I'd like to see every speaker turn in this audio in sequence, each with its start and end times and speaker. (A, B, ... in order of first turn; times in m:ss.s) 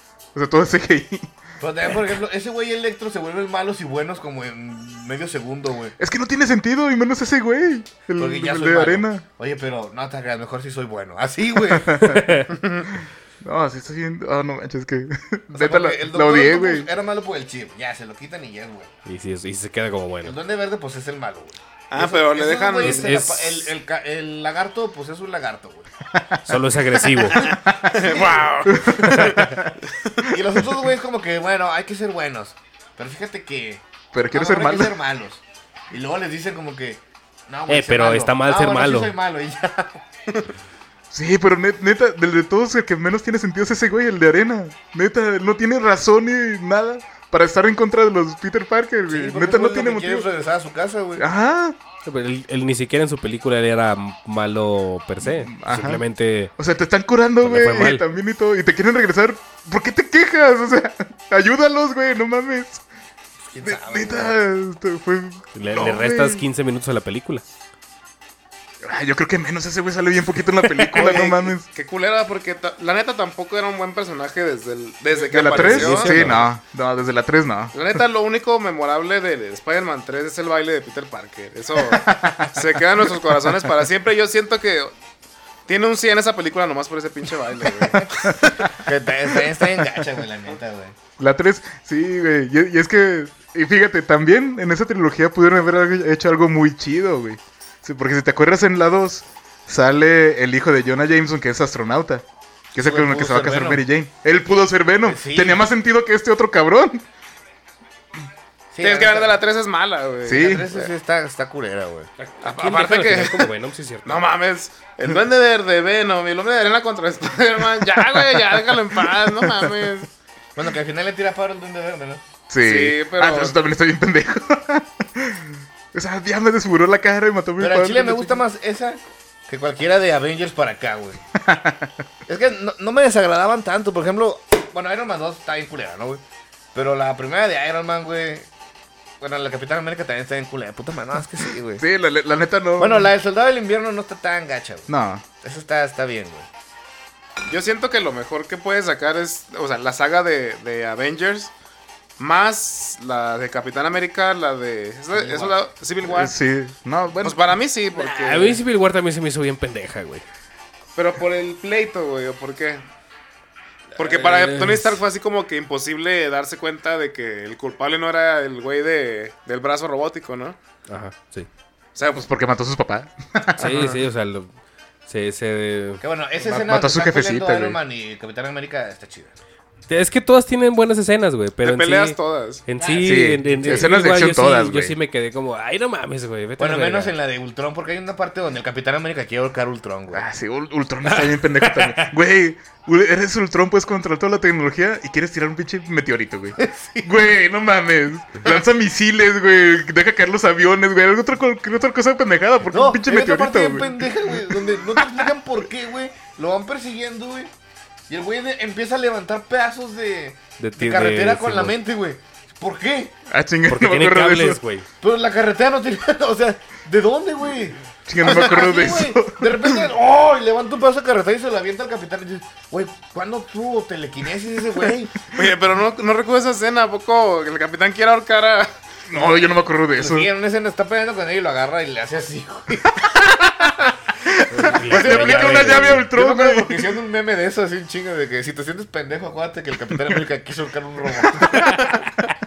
0:00.3-0:01.3 A
0:01.6-0:06.0 B
0:06.0-0:09.2 A
0:08.2-0:12.0 B
0:11.6-0:16.9 A
0:12.0-0:12.5 C
0:12.5-0:12.9 D
0:15.5-0:18.9 B
0:19.1-0:20.4 C
0:20.2-0:25.9 B
0:21.9-0:23.1 D
0:22.8-0:23.7 C
0:26.1-0:26.6 A
0:26.4-0:27.6 C
0:27.2-0:30.2 D
0:27.4-0:30.8 A
0:27.4-0:28.5 B
0:28.9-0:29.5 C
0:30.3-0:40.0 B
0:34.1-0:35.0 A
0:37.7-0:39.1 C
0:41.1-0:50.3 A
0:49.1-0:51.2 B
0:51.2-0:51.8 A
0:52.0-0:56.5 C
0:55.2-0:56.0 A
0:56.6-1:02.8 A
0:57.4-0:58.0 C
1:03.5-1:04.4 B
1:03.6-1:06.4 A
1:05.6-1:07.4 C
1:08.8-1:11.7 A
1:10.8-1:16.5 D
1:15.2-1:17.8 A
1:15.4-1:16.5 C
1:17.7-1:25.0 D
1:21.8-1:23.1 A
1:25.7-1:28.4 D
1:28.2-1:28.6 A
1:28.4-1:31.0 B
1:31.2-1:47.0 A
1:42.8-1:43.8 B
1:45.0-1:45.7 B
1:48.7-1:49.4 B
1:48.8-1:50.9 D
1:50.2-1:50.7 A
1:50.3-1:52.1 B
1:52.2-1:54.3 C
1:52.4-1:53.5 D
1:54.0-2:00.1 D
1:58.0-1:59.9 A
2:00.6-2:02.2 B
2:02.5-2:08.4 A
2:02.6-2:03.6 D
2:07.6-2:11.2 B
2:11.3-2:11.9 A
2:12.3-2:16.2 B
2:16.7-2:18.5 B
2:19.2-2:21.8 B
2:21.8-2:23.1 A
2:22.8-2:24.9 B
2:24.9-2:25.2 A
2:25.4-2:26.5 B
2:27.5-2:31.5 D
2:32.2-2:36.3 D
2:35.1-2:35.6 B
2:36.1-2:37.5 A
2:37.2-2:38.6 D
2:37.9-2:40.2 C
2:41.0-2:42.8 D
2:43.9-2:45.0 C
2:44.0-2:50.6 D
2:50.9-2:51.5 C
2:52.1-2:53.9 A
2:53.6-2:54.0 D
2:53.6-2:54.5 C
2:55.1-2:56.0 C
2:56.0-2:59.3 B
2:56.4-2:57.8 A
2:59.9-3:07.1 C
3:01.6-3:02.6 D
3:02.8-3:03.9 B
3:03.0-3:05.0 A
3:06.6-3:10.2 B
3:10.1-3:25.3 A
3:11.1-3:12.1 C
3:16.6-3:17.2 B
3:22.7-3:27.5 B
3:28.1-3:33.1 B
3:30.6-3:31.7 C
3:33.3-3:34.6 A
3:33.7-3:34.9 C
3:35.0-3:45.2 B
3:38.1-3:39.9 A
3:45.3-3:48.8 D
3:49.1-3:50.3 A
3:49.1-3:53.0 B
3:53.0-3:56.9 A
3:54.5-3:56.1 C
3:54.7-4:01.8 B
3:59.9-4:00.2 A
4:01.2-4:01.8 A
4:01.6-4:02.1 D